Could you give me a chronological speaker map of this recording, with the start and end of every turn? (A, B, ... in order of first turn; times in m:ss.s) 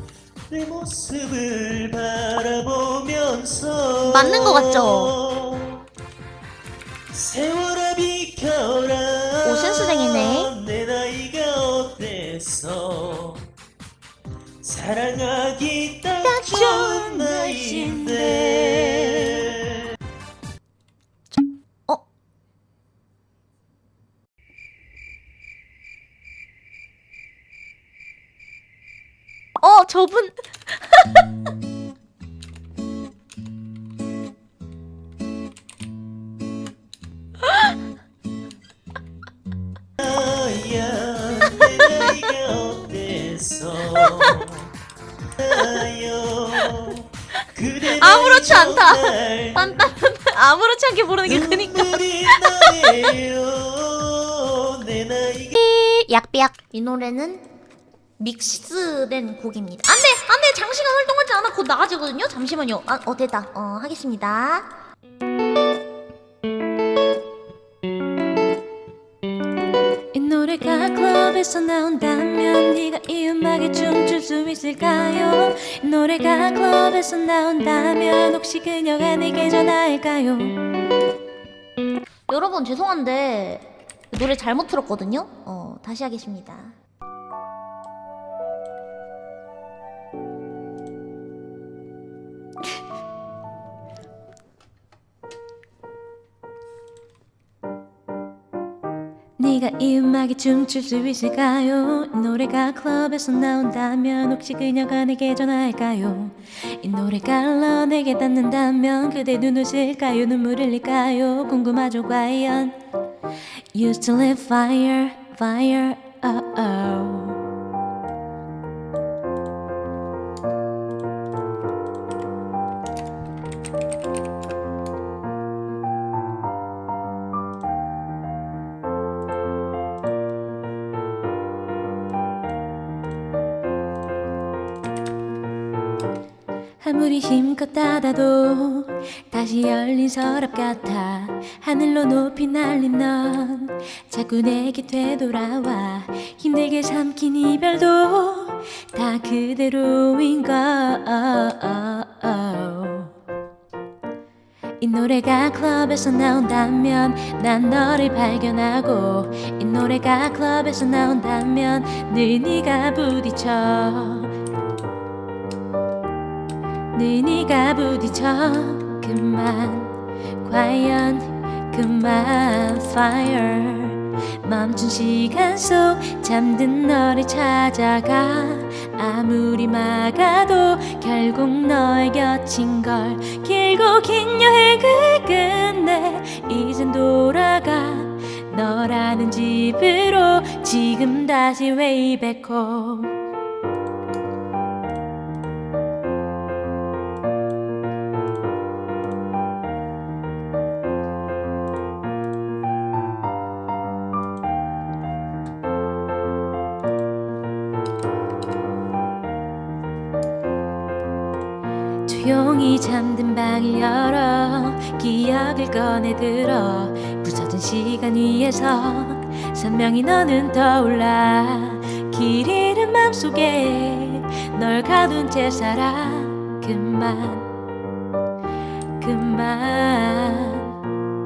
0:00.5-0:05.8 A
0:04.0-0:05.1 B
0:07.1-0:13.5 A
0:09.4-0:10.5 B
0:14.6-0:19.9 A
0:16.3-0:19.5 C
0:29.6-0:30.3 B
0:40.0-0:44.7 A
0:45.4-0:49.9 A
0:47.9-0:53.0 B
0:51.2-0:55.6 A
0:55.5-0:57.4 B
0:58.2-1:04.7 B
1:10.1-1:20.6 C
1:22.3-1:26.7 B
1:39.4-1:52.7 C
1:53.7-1:57.4 C
2:16.8-2:33.1 C
2:34.8-2:44.3 C
2:46.9-3:13.1 C
3:32.0-3:47.5 C
3:49.0-3:50.8 C